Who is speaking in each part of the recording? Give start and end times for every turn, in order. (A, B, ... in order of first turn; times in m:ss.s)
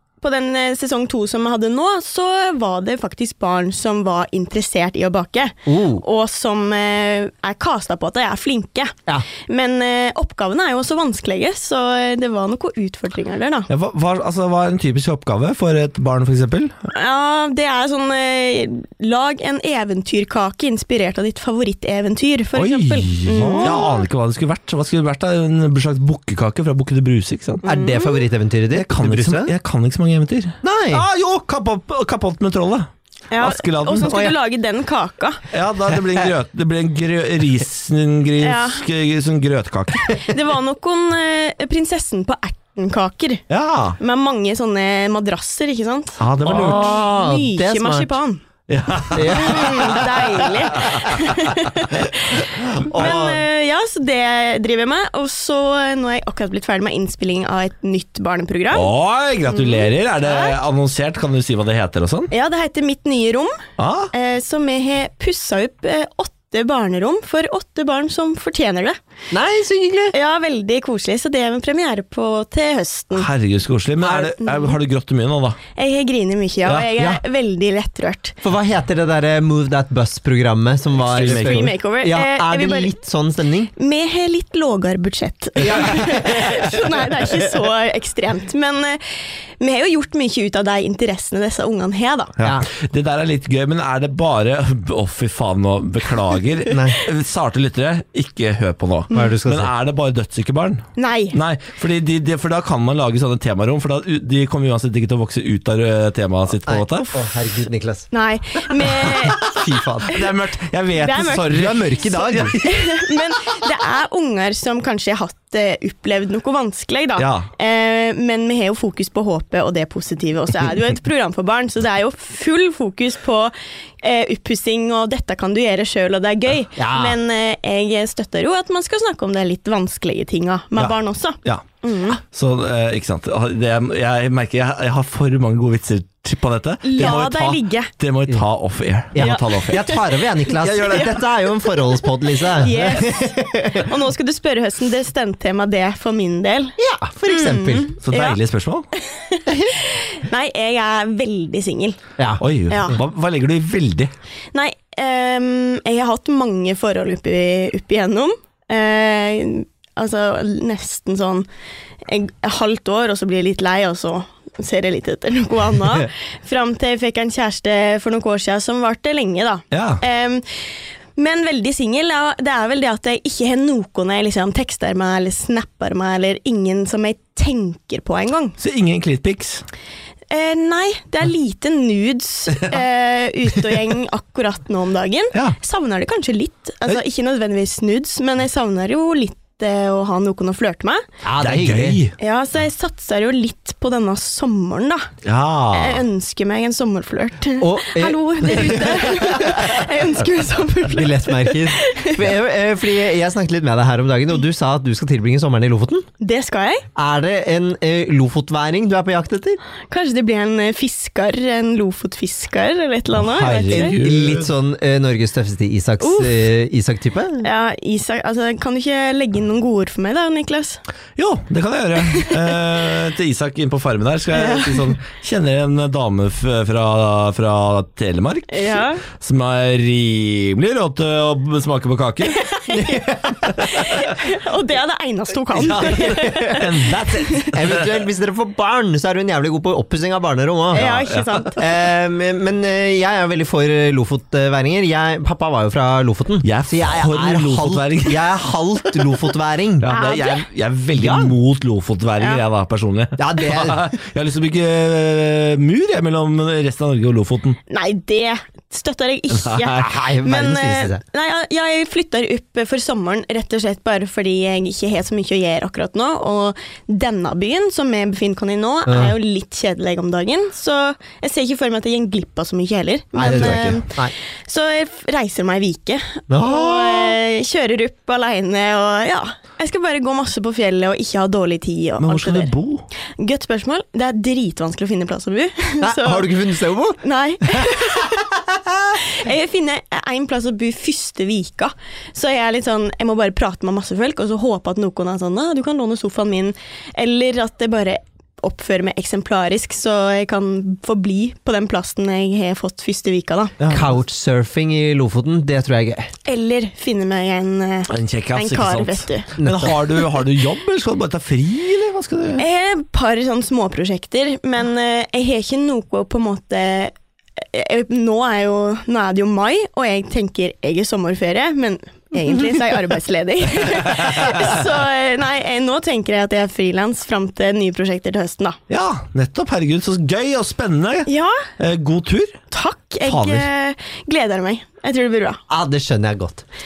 0:00.2-0:13.7 A
0:05.7-0:06.0 B
0:13.7-0:16.8 C
0:16.9-0:24.0 A
0:22.6-0:27.6 C
0:23.4-0:23.8 B
0:27.6-0:28.2 A
0:27.6-0:29.5 B
0:28.7-0:34.2 C
0:30.6-0:31.1 B
0:33.3-0:35.4 A
0:34.1-0:34.3 B
0:35.5-0:40.3 C
0:38.4-0:38.8 A
0:40.0-0:43.4 A
0:43.5-0:44.0 C
0:44.0-0:48.4 A
0:46.2-0:47.0 C
0:46.4-0:48.2 B
0:48.7-0:52.0 C
0:49.1-0:50.5 B
0:49.2-0:58.9 A
0:52.6-0:53.0 C
0:52.8-0:53.4 B
0:58.7-1:02.3 C
0:59.5-1:00.6 A
1:02.3-1:09.0 A
1:03.8-1:04.1 C
1:09.3-1:10.2 B
1:10.1-1:13.3 A
1:13.2-1:15.6 C
1:14.0-1:14.4 B
1:14.4-1:14.8 A
1:15.8-1:18.4 A
1:18.4-1:23.7 B
1:21.0-1:21.7 C
1:21.2-1:22.9 A
1:23.7-1:29.0 A
1:25.6-1:27.5 B
1:29.6-1:32.3 A
1:32.4-1:47.1 C
1:32.4-1:32.7 B
1:36.7-1:37.0 B
1:39.1-1:39.7 B
1:41.0-1:41.4 A
1:46.7-1:48.1 B
1:48.1-1:49.5 A
1:49.0-1:52.8 C
1:49.4-1:50.2 B
1:51.0-1:51.5 A
1:51.4-1:52.6 B
1:52.0-2:12.2 A
1:57.2-1:57.5 C
2:06.8-2:07.2 B
2:10.8-2:20.0 C
2:16.8-2:17.9 A
2:19.1-2:23.9 B
2:19.2-2:21.0 A
2:20.5-2:21.2 C
2:22.3-2:28.4 A
2:26.8-2:27.9 B
2:28.0-2:28.9 C
2:29.0-2:32.0 A
2:29.5-2:29.7 B
2:32.4-2:34.1 C
2:32.7-2:33.0 A
2:34.5-2:41.5 A
2:42.1-2:50.5 A
2:49.7-2:50.0 C
2:51.2-2:58.6 A
2:58.6-2:59.6 C
3:00.3-3:11.0 A
3:11.2-3:12.0 B
3:11.4-3:12.2 C
3:12.2-3:15.1 A
3:15.2-3:16.0 C
3:15.7-3:22.3 A
3:17.6-3:19.8 B
3:20.9-3:26.1 B
3:26.2-3:26.8 A
3:27.0-3:29.6 B
3:29.9-3:34.0 A
3:33.2-3:34.5 C
3:33.7-3:37.5 B
3:36.0-3:36.5 A
3:37.4-3:40.8 A
3:41.2-3:52.5 C
3:42.1-3:42.6 A
3:44.3-3:45.0 A
3:48.5-3:49.0 A
3:52.2-3:57.5 A
3:52.7-3:53.9 B
3:55.6-3:58.0 C
3:55.6-3:56.7 B
3:57.5-4:00.9 B
4:00.7-4:01.6 A
4:00.8-4:01.5 C
4:01.6-4:09.9 B
4:06.4-4:08.3 C
4:09.8-4:17.6 C
4:09.9-4:10.4 A
4:11.0-4:11.4 B
4:13.2-4:13.9 B
4:17.7-4:42.5 A
4:19.3-4:19.9 C
4:19.8-4:21.0 B
4:28.9-4:29.1 B
4:33.2-4:34.1 B
4:33.2-4:33.8 C
4:36.3-4:37.2 B
4:42.0-4:42.9 C
4:43.2-4:46.3 A
4:45.8-4:48.9 B
4:47.0-4:48.2 A
4:49.0-5:03.6 A
5:03.6-5:03.9 C
5:03.7-5:06.1 B
5:06.3-5:09.3 A
5:07.9-5:12.4 C
5:09.4-5:09.8 B
5:12.4-5:28.6 A
5:23.8-5:24.5 C
5:28.7-5:32.4 C
5:31.1-5:31.4 A
5:32.5-5:35.4 A
5:33.1-5:33.5 C
5:35.5-5:36.4 B